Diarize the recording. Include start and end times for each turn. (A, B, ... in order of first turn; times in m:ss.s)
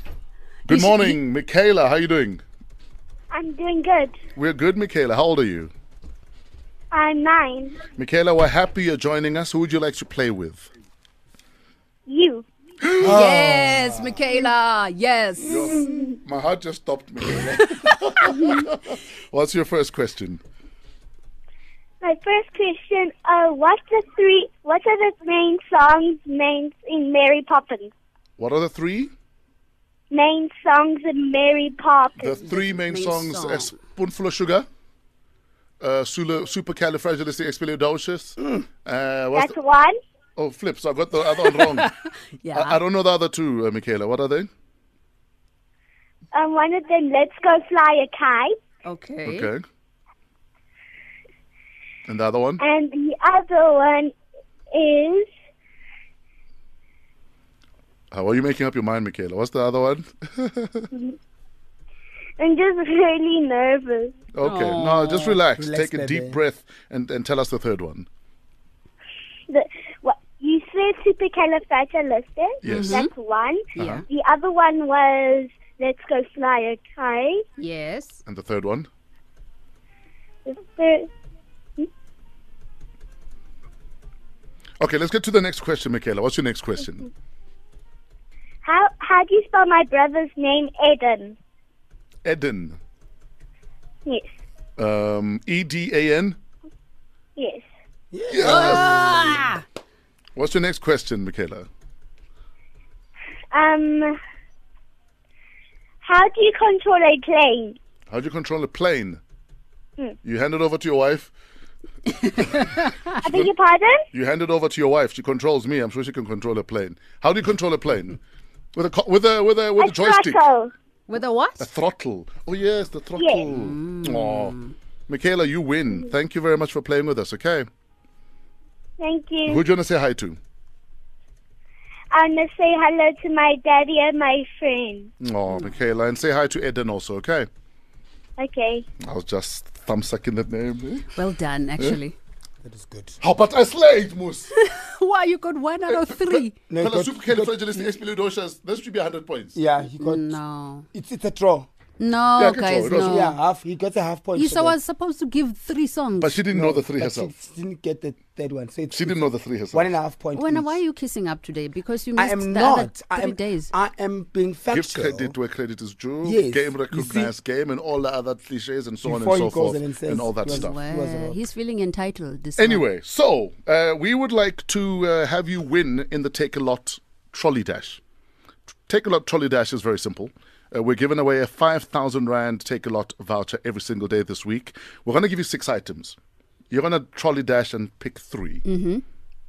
0:00.6-0:01.2 A
0:00.7-0:02.4 B
0:03.3-0:04.2 C
0:04.4-0:05.7 B
0:06.9-0:07.8 C
0:08.0-0:10.6 B
0:12.1-0:12.4 C
0:12.8-0:13.2 B
0:13.0-0:16.1 A
0:13.0-0:14.0 D
0:15.4-0:20.4 B
0:17.3-0:18.5 A
0:22.0-0:27.9 C
0:28.4-0:29.1 B
0:30.1-0:32.4 C
0:32.2-0:34.7 B
0:32.4-0:33.8 A
0:35.8-0:39.5 B
0:39.3-0:40.0 C
0:40.4-0:41.9 B
0:41.4-0:42.8 A
0:42.5-0:44.5 B
0:46.3-0:48.5 C
0:48.8-0:49.5 A
0:49.2-0:49.6 B
0:52.1-0:52.6 B
0:52.6-0:54.1 C
0:54.7-0:55.3 C
0:58.1-1:00.9 B
1:02.4-1:04.2 C
1:04.3-1:08.1 B
1:04.4-1:05.4 A
1:05.6-1:06.4 D
1:09.5-1:17.4 C
1:12.6-1:13.0 B
1:12.6-1:13.1 A
1:13.8-1:14.0 B
1:13.8-1:14.0 A
1:17.6-1:18.2 A
1:18.2-1:18.9 B
1:20.4-1:21.1 C
1:24.8-1:27.1 B
1:28.6-1:31.4 C
1:32.2-1:32.8 B
1:34.8-1:36.4 B
1:37.4-1:37.6 C
1:38.1-1:39.5 D
1:38.3-1:39.4 B
1:38.4-1:39.6 A
1:40.4-1:41.7 B
1:43.5-1:44.2 C
1:46.0-1:47.8 C
1:48.1-1:49.2 B
1:50.2-1:51.3 B
1:52.4-1:52.8 A
1:53.2-1:54.0 C
1:54.1-1:58.2 B
1:58.7-2:00.4 B
1:59.8-2:00.7 C
2:01.1-2:01.7 A
2:01.6-2:04.6 B
2:03.2-2:03.5 C
2:03.5-2:04.7 A
2:05.1-2:07.7 B
2:09.0-2:09.6 C
2:09.4-2:10.4 B
2:12.1-2:15.1 C
2:15.2-2:17.5 B
2:18.4-2:18.8 C
2:19.0-2:21.1 B
2:21.1-2:22.2 A
2:22.6-2:23.2 D
2:23.2-2:24.5 B
2:24.5-2:26.6 A
2:25.9-2:29.6 B
2:26.7-2:28.0 D
2:29.5-2:30.4 D
2:30.0-2:30.8 A
2:30.9-2:31.7 D
2:32.0-2:33.4 A
2:32.3-2:33.2 B
2:32.9-2:34.8 D
2:34.3-2:36.4 A
2:36.2-2:37.3 B
2:36.5-2:40.8 D
2:38.9-2:39.9 B
2:40.3-2:43.7 A
2:42.2-2:45.3 D
2:44.7-2:50.8 B
2:46.2-2:47.3 D
2:49.0-2:51.4 D
2:50.4-2:52.8 A
2:52.6-2:58.0 B
2:58.9-3:06.2 B
3:06.7-3:08.6 B
3:08.6-3:09.0 A